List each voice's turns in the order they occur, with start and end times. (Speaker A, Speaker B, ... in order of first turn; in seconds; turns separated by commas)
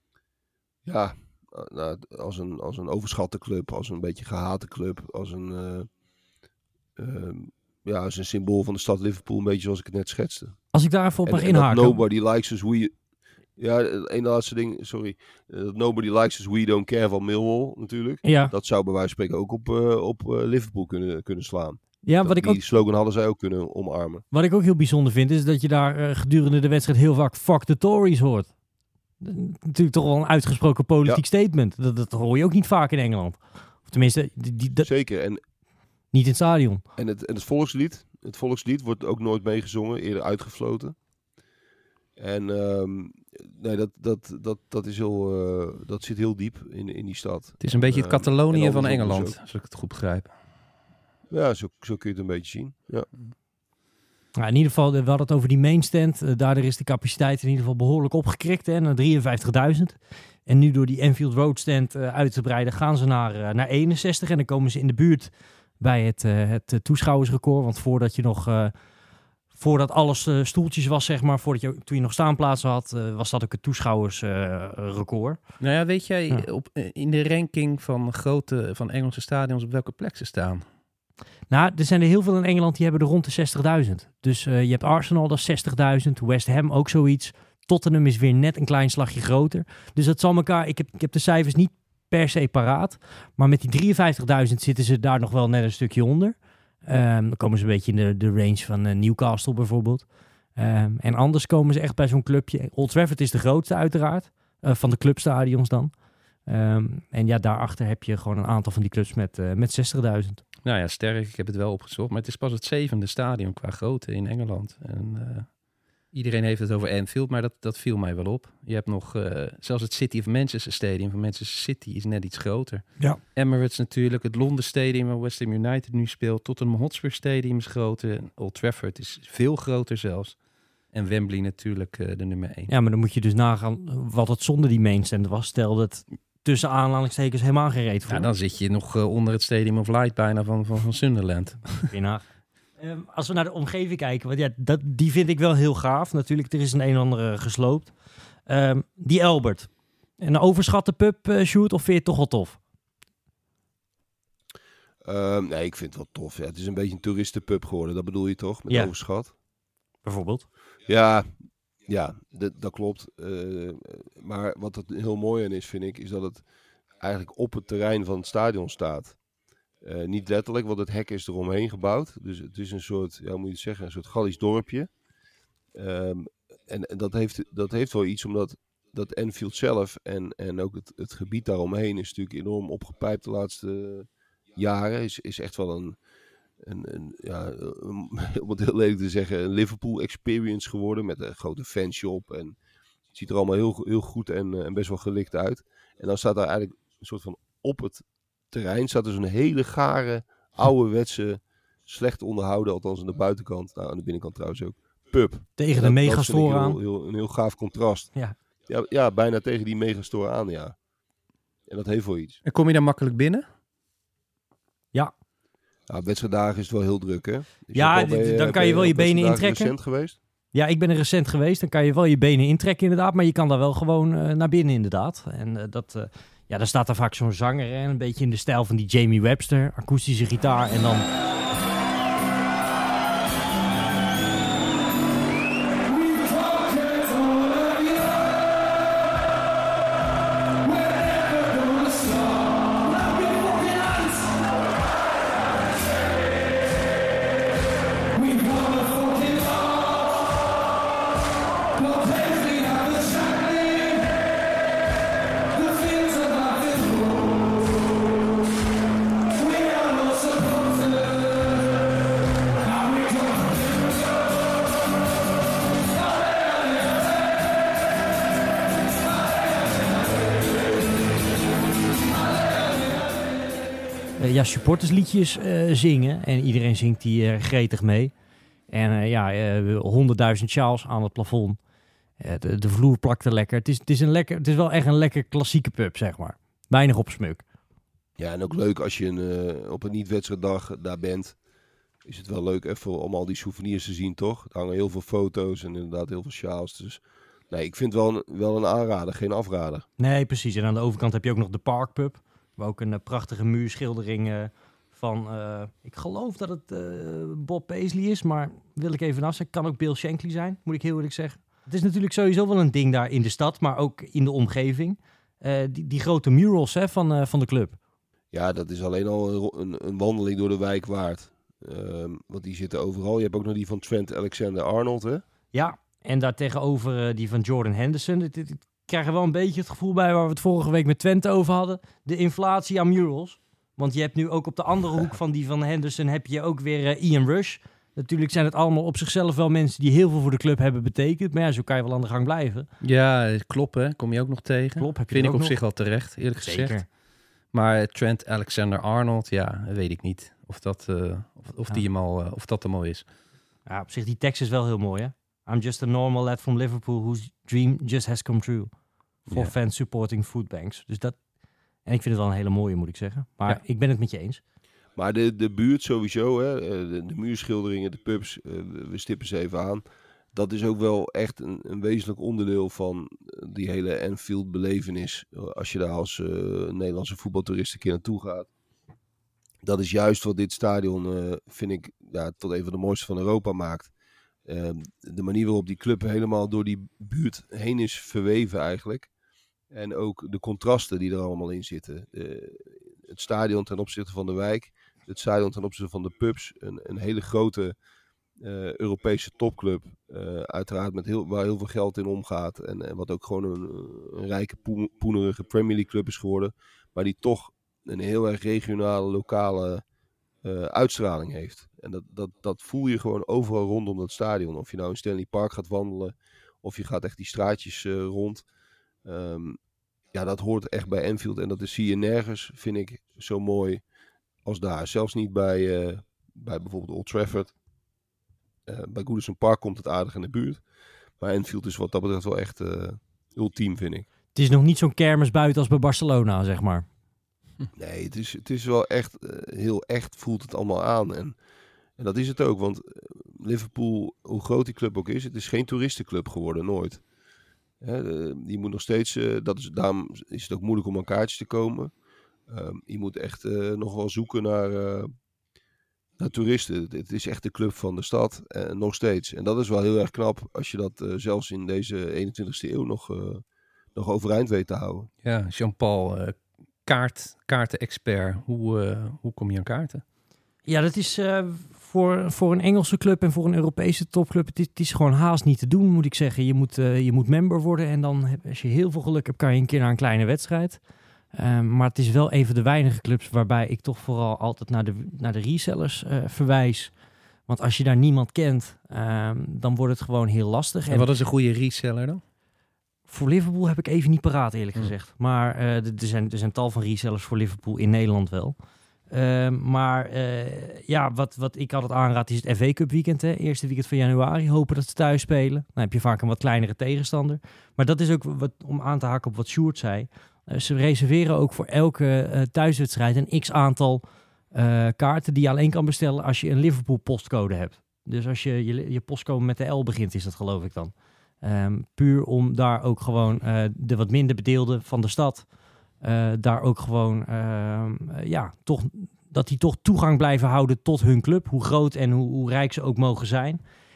Speaker A: 0.8-5.9, Speaker A: 7.0-10.6, Speaker B: 10.7-12.0, Speaker A: 11.2-12.9, Speaker A: 13.6-24.2, Speaker B: 18.2-18.5, Speaker B: 22.0-22.6, Speaker B: 24.3-28.5, Speaker B: 29.2-34.9, Speaker A: 34.8-35.4, Speaker B: 36.1-36.8, Speaker A: 37.0-41.0, Speaker A: 42.2-49.4, Speaker C: 47.6-50.3, Speaker A: 51.3-53.1, Speaker B: 54.4-68.7, Speaker B: 69.5-75.4, Speaker C: 75.6-80.6, Speaker B: 81.5-105.9, Speaker B: 106.5-110.4, Speaker C: 110.6-115.5, Speaker C: 116.1-130.4, Speaker C: 130.9-132.7, Speaker B: 132.7-138.3, Speaker C: 138.1-141.9, Speaker B: 141.9-142.2, Speaker B: 142.8-147.9, Speaker B: 148.5-149.7, Speaker B: 150.2-152.6, Speaker A: 155.0-159.3, Speaker B: 160.0-160.4, Speaker A: 160.9-161.3, Speaker A: 161.9-166.4, Speaker A: 167.0-169.2, Speaker A: 169.8-174.9, Speaker A: 175.7-186.0, Speaker A: 186.6-192.6, Speaker A: 193.1-208.1, Speaker B: 205.6-206.8, Speaker A: 208.7-210.8, Speaker A: 211.7-212.4, Speaker C: 212.4-213.4, Speaker A: 215.9-220.2, Speaker B: 217.7-219.7, Speaker B: 220.5-231.1, Speaker B: 235.9-238.0, Speaker B: 240.7-244.3, Speaker B: 248.2-250.0, Speaker B: 251.8-254.0, Speaker B: 255.6-257.3, Speaker B: 259.4-260.9, Speaker B: 262.9-263.2, Speaker B: 274.2-278.1, Speaker B: 278.7-281.6, Speaker B: 282.2-287.4, Speaker A: 288.2-291.4, Speaker A: 292.0-299.9, Speaker B: 300.0-317.8, Speaker A: 318.3-325.2, Speaker B: 325.5-342.7, Speaker C: 342.8-346.8, Speaker B: 344.8-345.6, Speaker B: 346.4-346.9, Speaker C: 347.5-353.0, Speaker B: 353.7-358.7, Speaker B: 359.3-361.1, Speaker B: 361.9-364.4, Speaker A: 364.9-369.8, Speaker A: 370.3-378.5, Speaker A: 379.6-383.9, Speaker A: 384.5-389.1, Speaker A: 389.7-397.7, Speaker A: 398.4-409.8, Speaker A: 410.4-418.4, Speaker A: 419.0-419.6, Speaker A: 420.1-423.8, Speaker A: 424.4-427.5, Speaker A: 428.6-430.6, Speaker A: 431.2-434.1, Speaker B: 434.3-436.9, Speaker A: 437.7-441.4, Speaker A: 442.0-447.0, Speaker A: 447.8-451.9, Speaker A: 452.5-455.1, Speaker A: 456.2-463.4, Speaker A: 463.9-465.1, Speaker C: 465.2-470.0, Speaker B: 470.6-480.8, Speaker B: 481.3-486.9, Speaker B: 487.5-491.1, Speaker C: 490.9-492.2, Speaker B: 493.1-498.6, Speaker B: 499.1-514.0, Speaker B: 514.5-525.5, Speaker B: 526.0-533.6